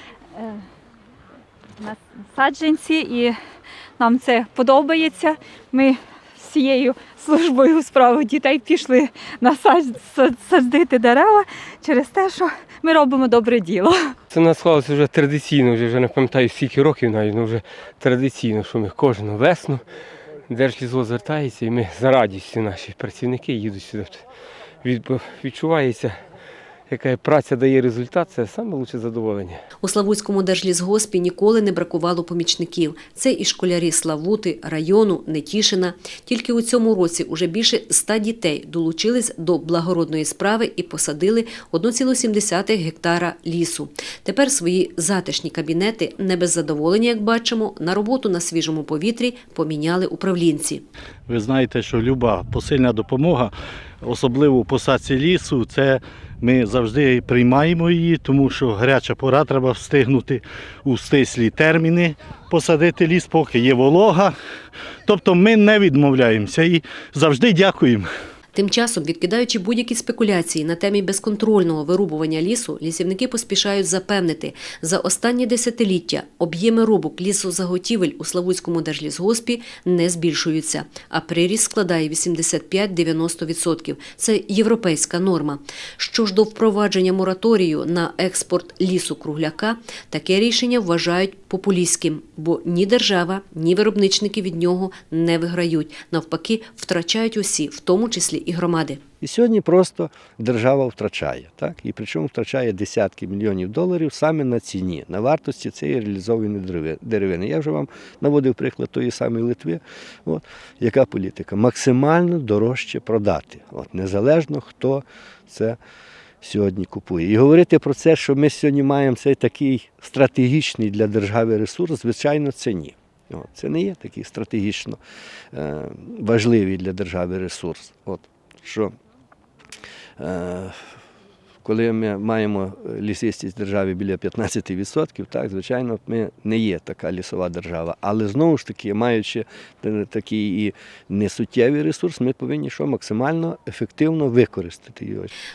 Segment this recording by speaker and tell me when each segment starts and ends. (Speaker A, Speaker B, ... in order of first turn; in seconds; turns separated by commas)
Speaker A: 1.8-3.4, Speaker A: 4.0-14.1, Speaker B: 14.3-19.8, Speaker B: 20.5-24.2, Speaker B: 24.8-26.1, Speaker B: 26.9-29.6, Speaker C: 29.8-50.8, Speaker D: 51.3-64.3, Speaker D: 65.1-68.1, Speaker C: 68.5-99.0, Speaker E: 99.2-115.8, Speaker E: 116.4-125.0, Speaker E: 125.5-128.9, Speaker E: 130.2-130.8, Speaker E: 131.6-145.3